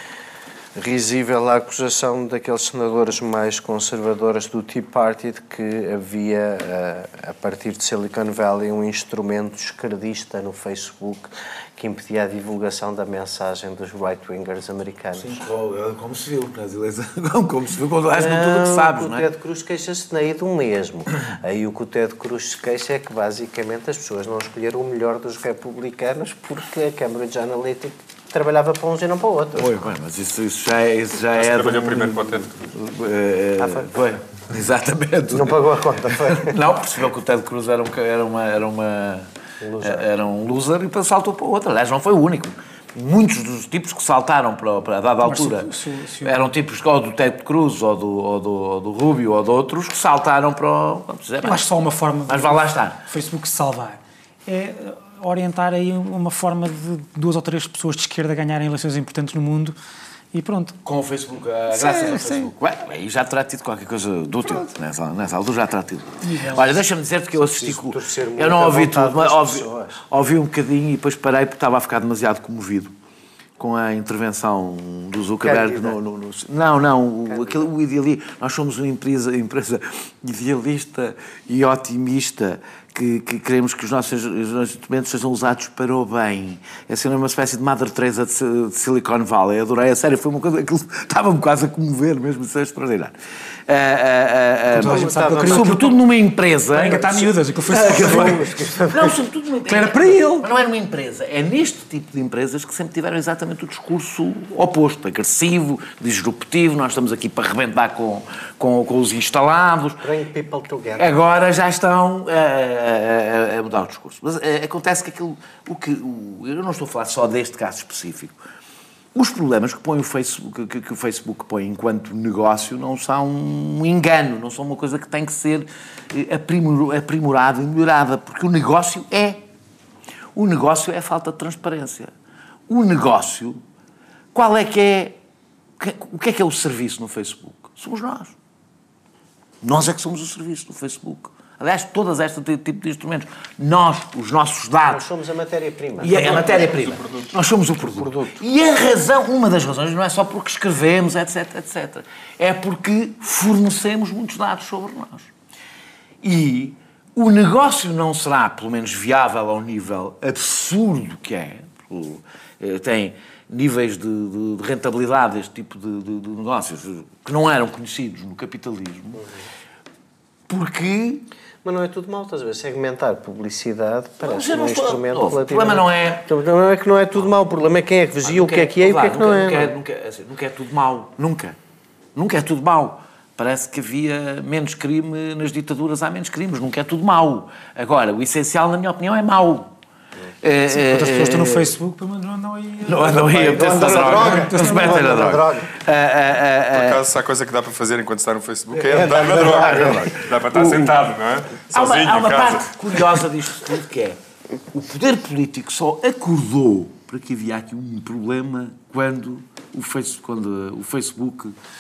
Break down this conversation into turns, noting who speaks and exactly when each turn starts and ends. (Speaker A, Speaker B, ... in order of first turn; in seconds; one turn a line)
Speaker A: 0.8-15.4
Speaker B: 15.2-19.3
Speaker A: 18.1-29.8
Speaker B: 29.6-39.3
Speaker C: 31.3-32.5
Speaker A: 33.6-33.9
Speaker A: 35.3-36.5
Speaker A: 39.6-40.0
Speaker B: 39.8-45.7
Speaker D: 45.2-46.5
Speaker B: 46.2-51.7
Speaker D: 51.4-59.8
Speaker B: 52.3-53.0
Speaker D: 60.3-60.8
Speaker B: 60.8-72.9
Speaker D: 61.7-62.5
Speaker D: 66.2-66.7
Speaker A: 67.4-70.0
Speaker B: 73.6-93.1
Speaker A: 75.4-76.0
Speaker A: 77.3-77.7
Speaker B: 93.7-110.0
Speaker D: 94.7-96.0
Speaker A: 94.8-95.8
Speaker D: 96.7-98.5
Speaker A: 97.8-99.1
Speaker D: 99.7-100.5
Speaker A: 110.0-111.1
Speaker B: 111.0-118.4
Speaker B: 119.1-129.4
Speaker B: 130.3-132.1
Speaker B: 132.7-133.6
Speaker B: 134.3-135.2
Speaker B: 135.8-138.3
Speaker B: 139.6-145.1
Speaker A: 144.8-146.7
Speaker B: 146.0-155.3
Speaker C: 146.0-147.3
Speaker A: 147.9-148.4
Speaker B: 156.2-169.2
Speaker B: 170.5-171.3
Speaker A: 171.6-179.8
Speaker B: 174.2-176.3
Speaker B: 178.2-181.6
Speaker B: 182.1-189.7
Speaker B: 190.4-191.7
Speaker D: 190.7-195.1
Speaker B: 192.9-197.0
Speaker A: 193.2-195.7
Speaker C: 193.8-194.5
Speaker C: 196.7-203.2
Speaker A: 198.9-200.1
Speaker B: 198.9-200.9
Speaker B: 201.7-204.2
Speaker B: 204.7-211.6